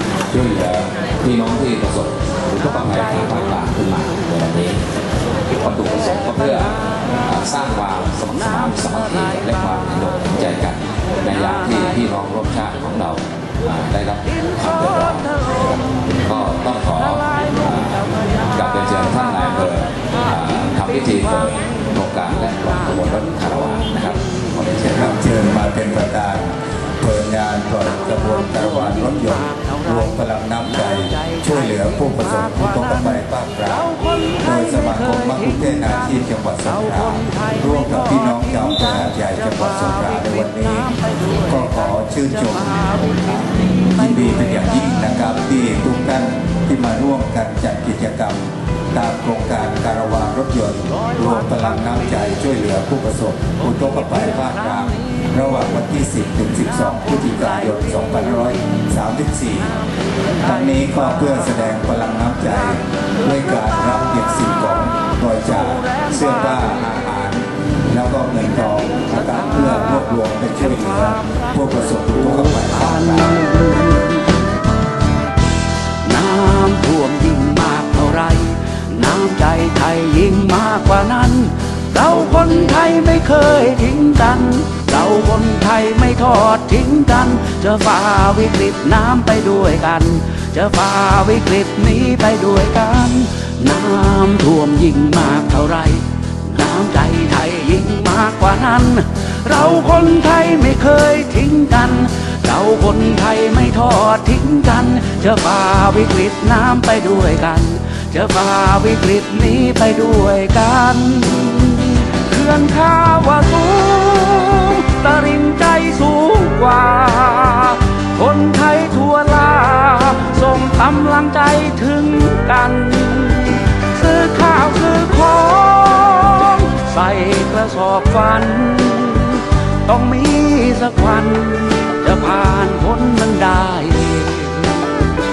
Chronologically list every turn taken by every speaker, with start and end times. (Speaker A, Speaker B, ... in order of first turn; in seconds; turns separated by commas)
Speaker A: 0.3-4.8, Speaker A: 5.5-25.1, Speaker B: 8.6-9.9, Speaker B: 14.4-15.6, Speaker B: 17.2-18.4, Speaker B: 21.5-21.9, Speaker B: 22.6-24.5, Speaker C: 24.8-59.8, Speaker B: 27.9-45.0, Speaker B: 50.9-52.5, Speaker B: 53.6-55.6, Speaker B: 56.8-58.7, Speaker B: 59.9-61.6, Speaker C: 60.4-73.5, Speaker B: 65.8-66.1, Speaker B: 69.0-74.3, Speaker B: 76.0-135.1